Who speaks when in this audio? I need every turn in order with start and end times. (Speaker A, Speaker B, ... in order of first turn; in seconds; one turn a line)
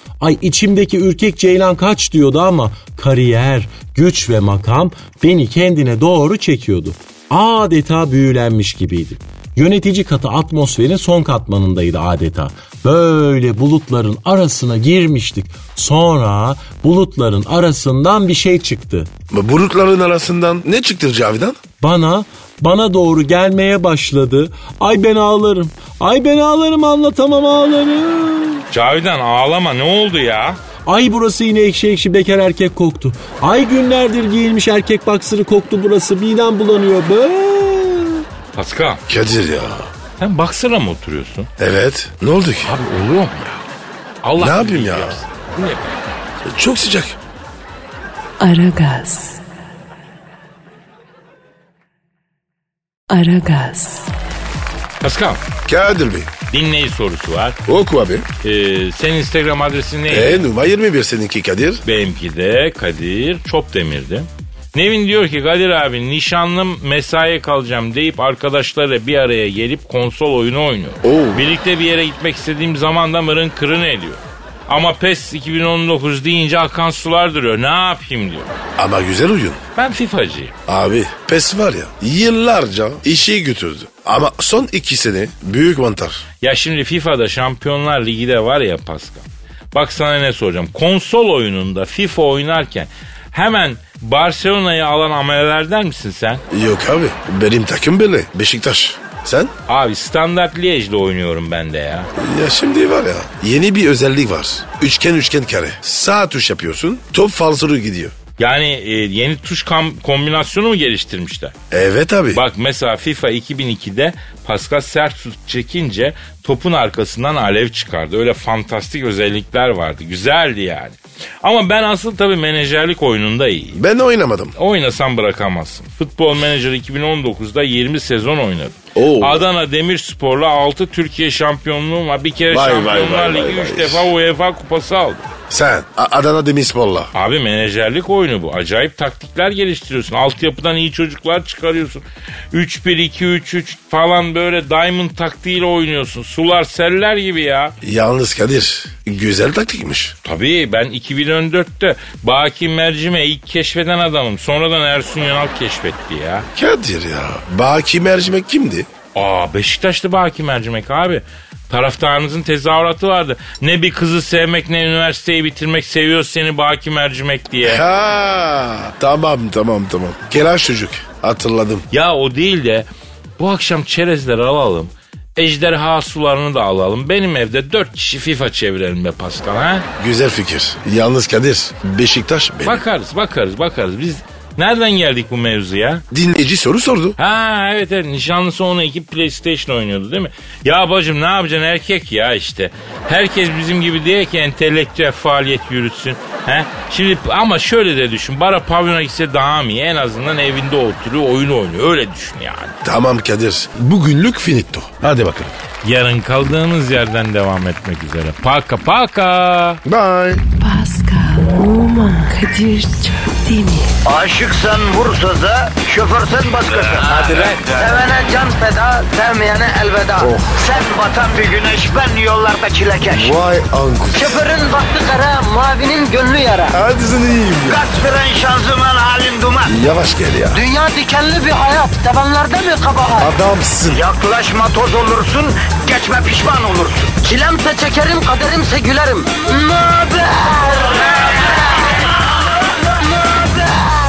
Speaker A: 0.2-19.1
Speaker B: 19.3-21.6
Speaker A: 21.8-28.6
Speaker C: 28.7-30.6
Speaker A: 30.8-38.2
Speaker C: 38.5-39.0
Speaker B: 39.1-39.9
Speaker C: 40.2-41.5
Speaker B: 41.6-42.7
Speaker C: 42.6-43.6
Speaker C: 44.2-46.0
Speaker B: 44.4-45.2
Speaker B: 46.4-47.2
Speaker D: 48.4-49.4
Speaker D: 53.1-54.1
Speaker C: 55.0-55.4
Speaker B: 55.6-56.3
Speaker C: 56.5-57.6
Speaker B: 57.6-58.3
Speaker C: 58.4-60.5
Speaker B: 60.1-61.8
Speaker C: 61.8-78.5
Speaker B: 71.0-71.5
Speaker B: 78.8-79.6
Speaker C: 79.8-80.5
Speaker B: 80.7-86.2
Speaker C: 86.4-96.4
Speaker B: 96.5-99.5
Speaker C: 99.7-102.1
Speaker B: 102.2-108.1
Speaker C: 108.4-111.5
Speaker B: 111.7-112.4
Speaker C: 112.3-123.8
Speaker B: 123.8-124.5
Speaker C: 124.5-135.3
Speaker B: 128.9-129.4
Speaker B: 132.5-134.1
Speaker B: 135.5-137.1
Speaker C: 137.1-147.7
Speaker B: 147.8-150.1
Speaker C: 150.2-156.5
Speaker B: 156.5-158.9
Speaker C: 159.1-167.8
Speaker B: 167.6-171.9
Speaker C: 171.9-179.9
Speaker B: 180.0-182.8
Speaker C: 182.6-186.0
Speaker B: 186.1-187.2
Speaker C: 187.2-202.8
Speaker B: 202.8-205.5
Speaker C: 205.8-209.8
Speaker B: 209.8-210.4
Speaker D: 210.6-213.9
Speaker E: 214.1-223.4
Speaker C: 216.8-217.7
Speaker B: 220.2-220.6
Speaker B: 223.1-224.4
Speaker E: 224.1-226.8
Speaker B: 226.7-227.8
Speaker E: 227.6-229.7
Speaker B: 229.7-230.6
Speaker E: 230.5-233.3
Speaker B: 233.2-234.0
Speaker E: 233.9-241.9
Speaker E: 243.1-244.0